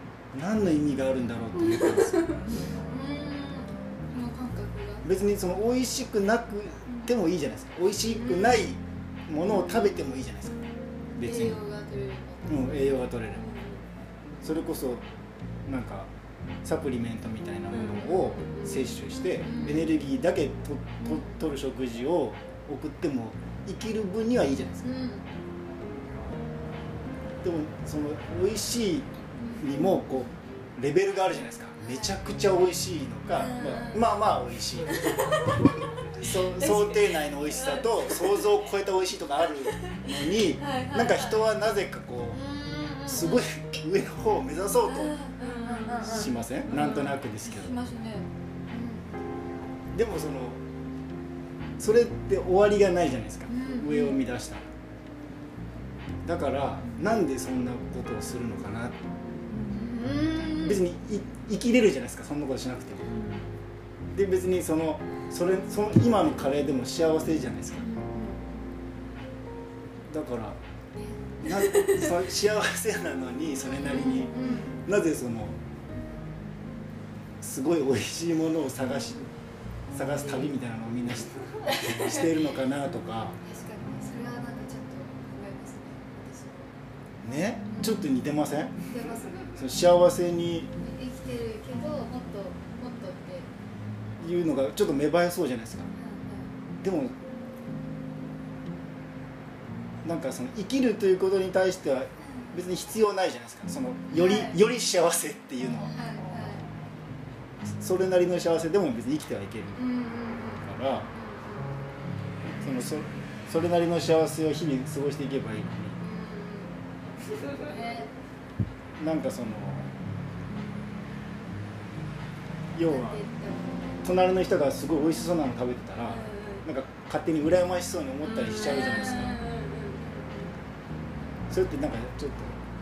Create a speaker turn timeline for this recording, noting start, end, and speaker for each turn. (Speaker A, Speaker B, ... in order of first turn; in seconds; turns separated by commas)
Speaker A: 0.3-2.3, Speaker B: 1.5-5.1, Speaker A: 5.0-11.6, Speaker B: 8.0-8.6, Speaker B: 11.2-13.8, Speaker A: 12.5-13.5, Speaker A: 14.4-15.0, Speaker A: 15.7-16.1, Speaker A: 16.6-24.9, Speaker B: 17.7-19.9, Speaker B: 21.0-21.4, Speaker B: 24.8-25.3, Speaker A: 27.4-35.1, Speaker B: 29.4-29.9, Speaker B: 31.8-32.1, Speaker B: 33.3-34.1, Speaker B: 34.9-38.5, Speaker A: 36.2-42.4, Speaker B: 39.7-41.5, Speaker B: 42.3-43.4, Speaker A: 43.0-47.8, Speaker B: 44.9-49.1, Speaker A: 49.9-50.6, Speaker A: 51.8-54.6, Speaker B: 53.5-54.2, Speaker A: 56.2-59.0, Speaker B: 59.6-60.8, Speaker A: 60.4-63.1, Speaker B: 63.1-63.4, Speaker A: 64.1-67.9, Speaker B: 67.8-68.8, Speaker A: 70.1-70.6, Speaker B: 71.0-72.2, Speaker A: 71.4-75.6, Speaker B: 73.6-74.8, Speaker A: 77.4-79.3, Speaker A: 79.9-83.3, Speaker B: 81.7-82.2, Speaker B: 83.4-86.7, Speaker A: 87.2-88.8, Speaker B: 87.6-88.0, Speaker B: 88.9-89.6, Speaker A: 89.5-90.7, Speaker B: 90.8-93.5, Speaker A: 94.2-95.9, Speaker B: 95.9-96.5, Speaker A: 96.8-97.1, Speaker A: 100.0-106.0, Speaker B: 104.1-104.6, Speaker B: 105.8-106.7, Speaker A: 107.7-109.9, Speaker B: 109.7-111.7, Speaker A: 110.5-111.1, Speaker A: 112.6-116.0, Speaker B: 116.0-116.7, Speaker B: 117.4-118.1, Speaker A: 119.0-119.9, Speaker A: 122.7-123.2, Speaker B: 122.8-124.1, Speaker A: 124.0-129.5, Speaker B: 126.0-126.7, Speaker B: 128.2-130.5, Speaker A: 131.5-132.6